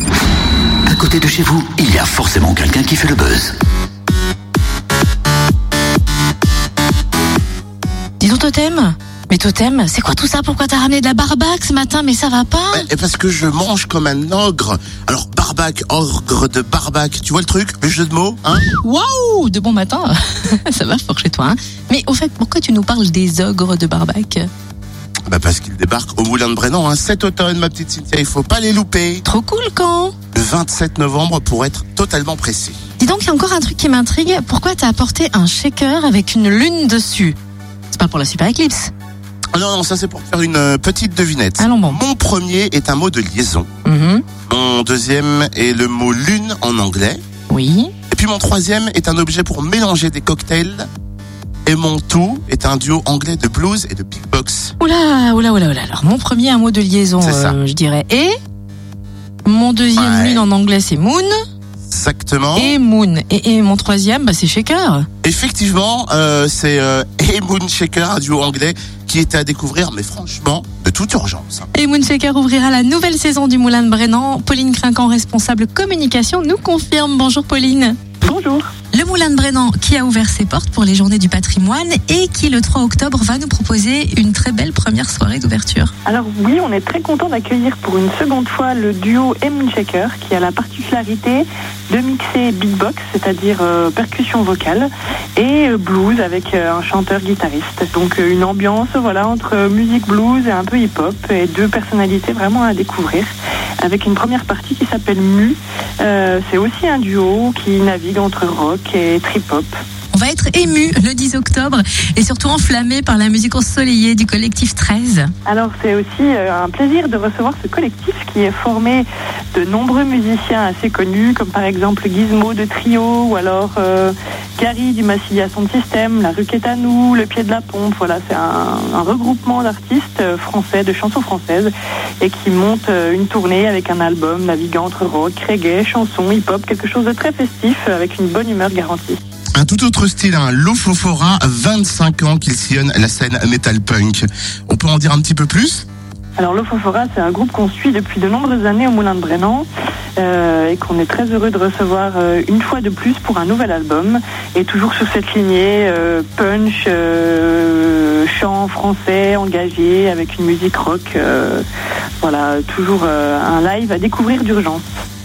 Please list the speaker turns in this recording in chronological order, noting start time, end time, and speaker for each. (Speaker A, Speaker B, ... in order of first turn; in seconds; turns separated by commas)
Speaker A: 0.9-3.5, Speaker B: 8.2-12.9, Speaker C: 12.7-18.6, Speaker B: 18.6-24.5, Speaker C: 25.3-29.2, Speaker B: 29.2-30.1, Speaker C: 30.3-32.8, Speaker B: 33.0-37.4, Speaker B: 37.9-38.9, Speaker C: 39.5-43.7, Speaker B: 41.6-42.0, Speaker B: 43.9-44.2, Speaker C: 44.5-47.2, Speaker B: 47.5-47.9, Speaker C: 48.1-50.9, Speaker C: 51.7-54.8, Speaker B: 54.8-58.4, Speaker C: 57.2-57.6, Speaker B: 59.5-61.4, Speaker C: 59.9-60.5, Speaker C: 61.9-62.8, Speaker B: 62.6-65.1, Speaker C: 65.2-71.7, Speaker B: 71.7-78.0, Speaker D: 78.2-78.7, Speaker B: 78.9-85.9, Speaker D: 86.0-109.8, Speaker B: 110.1-115.3, Speaker D: 115.5-139.2, Speaker C: 139.6-145.9, Speaker D: 146.4-149.7, Speaker D: 150.2-161.6, Speaker D: 162.2-164.8